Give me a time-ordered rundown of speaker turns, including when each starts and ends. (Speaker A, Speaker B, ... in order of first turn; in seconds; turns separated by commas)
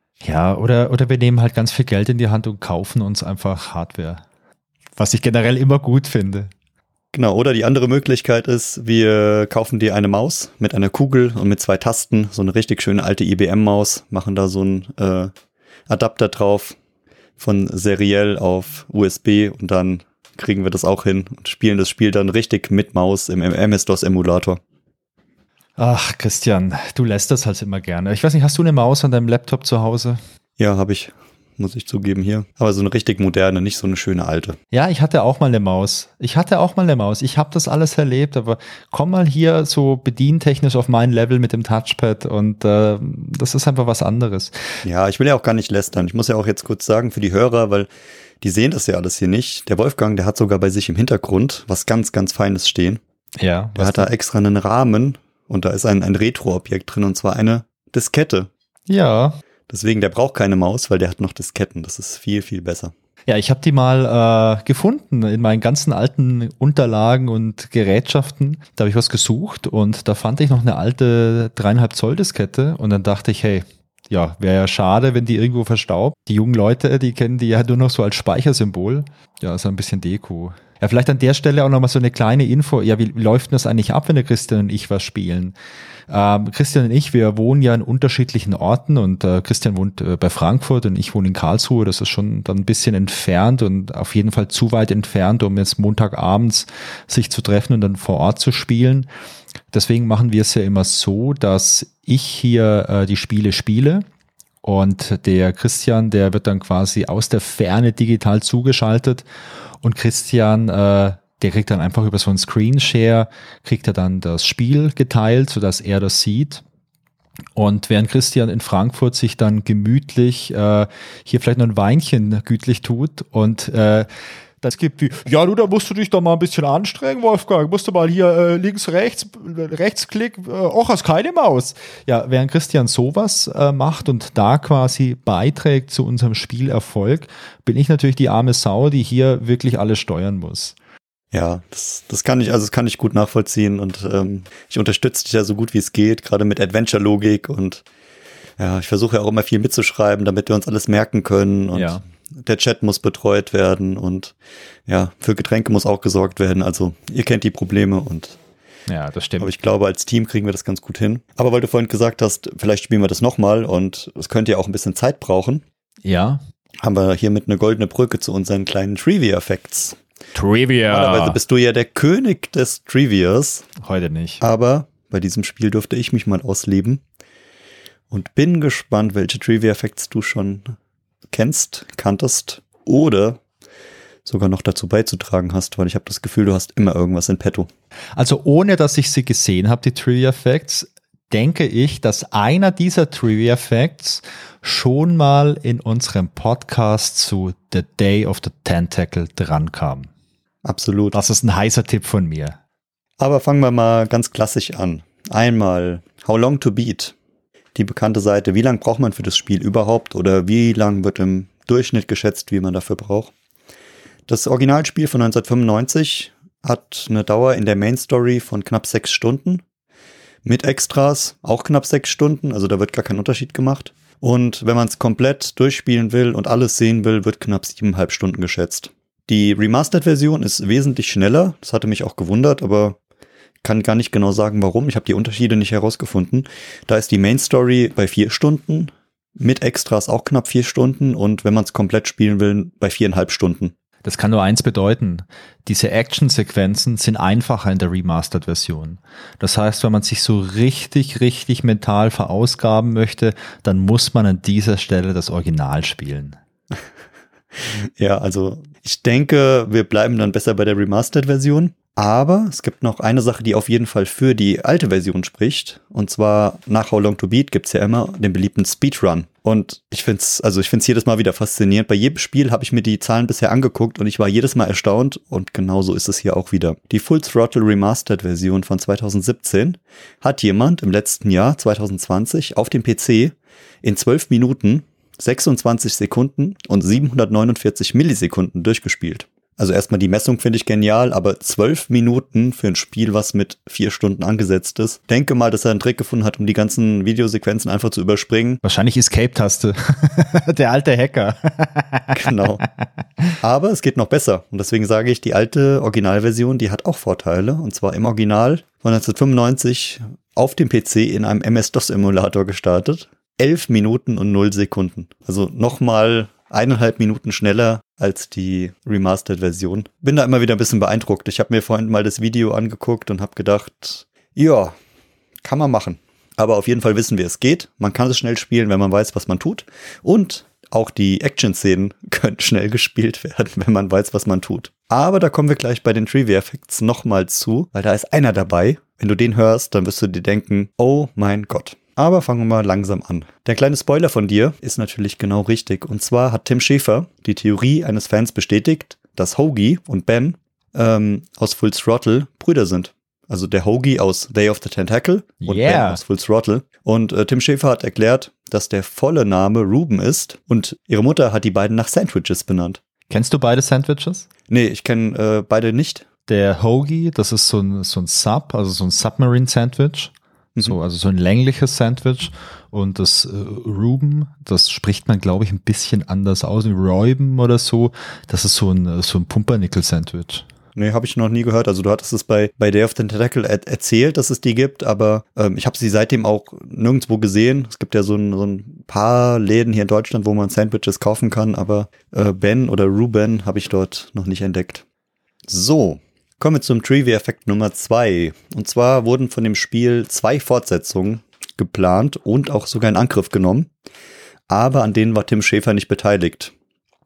Speaker A: 0.2-4.2, Speaker A: 5.0-6.5, Speaker B: 7.1-15.3, Speaker B: 15.9-16.8, Speaker B: 17.4-24.6, Speaker A: 25.8-30.2, Speaker B: 30.6-34.6, Speaker A: 34.7-44.5, Speaker B: 44.8-47.9, Speaker B: 48.4-53.0, Speaker A: 53.4-54.1, Speaker B: 53.8-58.5, Speaker A: 58.9-59.4, Speaker B: 59.7-62.9, Speaker A: 63.3-85.5, Speaker A: 86.1-99.1, Speaker A: 99.7-104.0, Speaker A: 104.6-109.2, Speaker A: 109.8-116.6, Speaker A: 117.5-124.1, Speaker A: 124.6-140.8, Speaker B: 141.3-147.8, Speaker B: 148.6-154.3, Speaker A: 151.7-152.0, Speaker B: 154.9-158.4, Speaker A: 158.9-159.5, Speaker B: 159.4-165.6, Speaker A: 166.0-166.4, Speaker B: 166.8-170.0, Speaker A: 170.3-171.4, Speaker B: 170.9-173.7, Speaker A: 173.8-174.4, Speaker B: 174.4-177.0, Speaker B: 178.1-180.7, Speaker B: 181.3-183.4, Speaker B: 184.2-187.7, Speaker A: 188.2-200.1, Speaker B: 200.6-201.1, Speaker A: 201.1-202.6, Speaker B: 203.2-207.1, Speaker B: 207.7-213.3, Speaker B: 214.3-219.6, Speaker B: 220.4-233.0, Speaker B: 233.6-243.7, Speaker A: 244.0-256.4, Speaker B: 257.6-298.6, Speaker A: 298.6-303.4, Speaker B: 302.1-302.6, Speaker B: 303.4-324.8, Speaker B: 325.4-362.8, Speaker A: 355.4-356.0, Speaker A: 363.1-364.3, Speaker B: 364.5-366.1, Speaker A: 366.3-380.4, Speaker B: 380.7-394.8, Speaker B: 395.5-403.7, Speaker B: 404.5-406.5